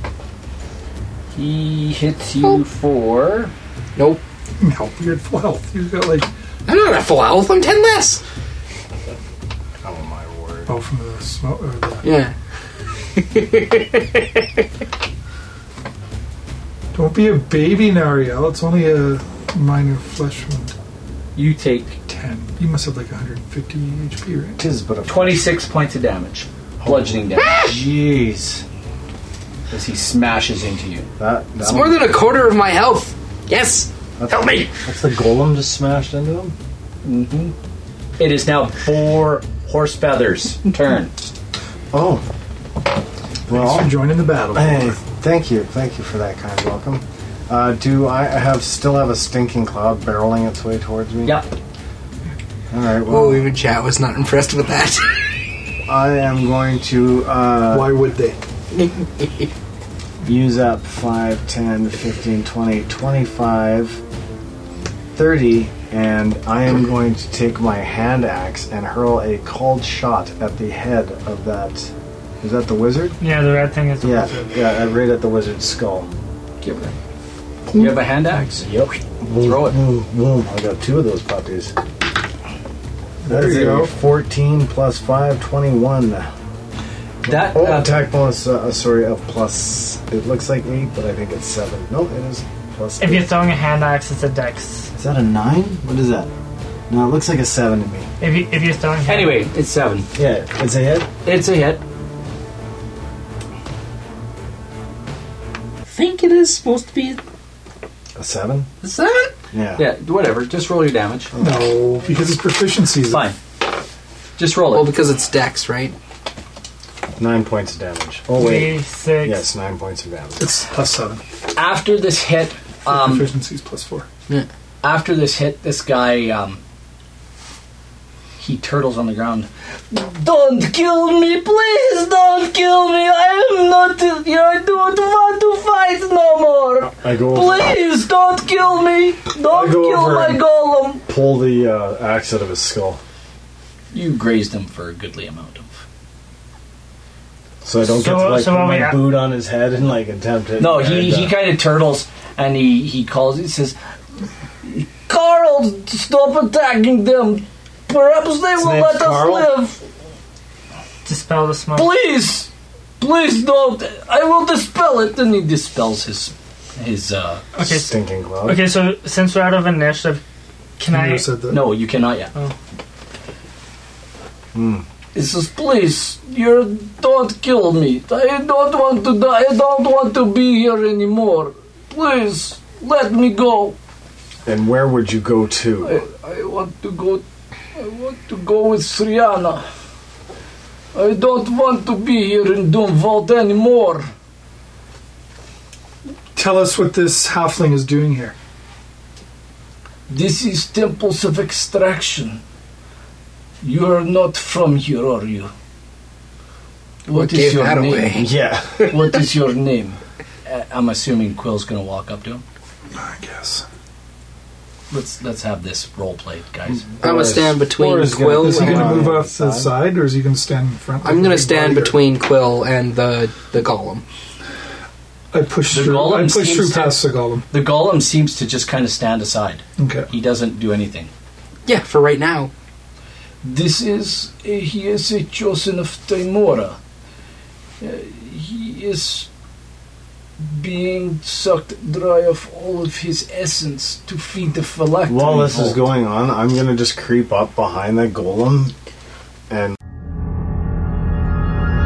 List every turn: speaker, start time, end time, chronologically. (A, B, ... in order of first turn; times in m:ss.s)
0:01.4-0:03.5 A
0:04.0-0:04.2 B
0:04.6-0:06.3 C
0:06.7-0:08.2 B
0:09.8-0:10.7 D
0:10.7-0:12.0 C
0:12.0-0:12.3 B
0:13.2-0:14.2 B
0:16.9-0:20.7 C
0:21.4-0:22.0 A
0:22.1-0:24.6 C
0:24.6-0:25.5 D
0:25.1-0:27.8 A
0:26.8-0:28.6 D
0:29.7-0:31.1 A
0:31.2-0:32.2 D
0:31.6-0:34.7 B
0:34.2-0:36.5 D
0:37.0-0:37.5 A
0:38.2-0:41.1 A
0:41.9-0:42.2 D
0:43.5-0:43.9 D
0:43.5-0:45.0 C
0:44.5-0:51.4 D
0:51.2-0:51.5 A
0:52.7-0:53.5 D
0:53.1-0:55.2 B
0:55.9-0:58.0 D
0:57.7-0:58.4 C
0:58.8-0:59.5 B
1:00.3-1:04.0 D
1:05.2-1:13.2 D
1:13.2-1:14.6 E
1:14.0-1:16.1 D
1:16.6-1:17.0 A
1:17.7-1:18.8 A
1:18.6-1:21.8 D
1:19.4-1:19.8 A
1:23.2-1:23.9 C
1:23.3-1:26.3 D
1:27.2-1:28.0 A
1:27.2-1:33.4 D
1:33.0-1:34.9 E
1:35.0-1:36.3 D
1:36.9-1:38.1 D
1:38.2-1:39.5 E
1:39.0-1:40.1 A
1:40.2-1:41.1 D
1:41.2-1:41.8 A
1:45.9-1:47.2 B
1:48.2-1:48.7 D
1:48.8-1:49.3 B
1:49.5-1:49.8 D
1:49.8-1:51.3 A
1:51.3-1:51.7 D
1:51.4-1:53.3 C
1:53.1-1:53.4 A
1:54.4-1:54.9 A
1:54.7-1:56.0 B
1:57.2-2:00.5 D
1:58.3-1:59.5 E
2:00.4-2:01.2 C
2:01.6-2:03.3 A
2:02.9-2:04.1 C
2:04.8-2:06.6 A
2:08.4-2:21.0 A
2:16.8-2:17.8 D
2:19.4-2:20.4 D
2:21.1-2:23.0 D
2:23.9-2:25.8 A
2:27.6-2:31.4 D
2:27.8-2:29.0 E
2:30.6-2:33.8 A
2:34.6-2:39.8 A
2:38.6-2:39.5 D
2:41.0-2:41.9 E
2:41.7-2:47.4 A
2:47.6-2:47.9 E
2:47.6-2:48.7 D
2:48.4-2:50.2 E
2:50.8-2:51.3 E
2:50.9-2:51.7 C
2:51.5-2:52.3 A
2:54.5-2:54.8 D
2:55.1-3:03.8 A
3:04.5-3:06.0 D
3:05.8-3:07.2 A
3:07.7-3:09.7 A
3:10.9-3:14.1 A
3:16.4-3:18.4 C
3:20.1-3:22.4 A
3:23.6-3:25.5 A
3:27.1-3:28.3 A
3:27.1-3:28.3 B
3:28.2-3:28.9 D
3:28.8-3:32.4 A
3:33.0-3:33.6 C
3:34.9-3:36.9 A
3:36.7-3:39.7 D
3:37.0-3:39.1 B
3:37.8-3:42.0 C
3:41.0-3:44.0 B
3:45.3-3:47.5 C
3:45.7-3:51.1 A
3:49.8-3:50.1 C
3:51.7-3:52.5 B
3:53.4-3:56.8 A
3:57.8-3:59.3 A
4:00.4-4:05.8 A
4:05.1-4:08.8 D
4:09.5-4:09.8 D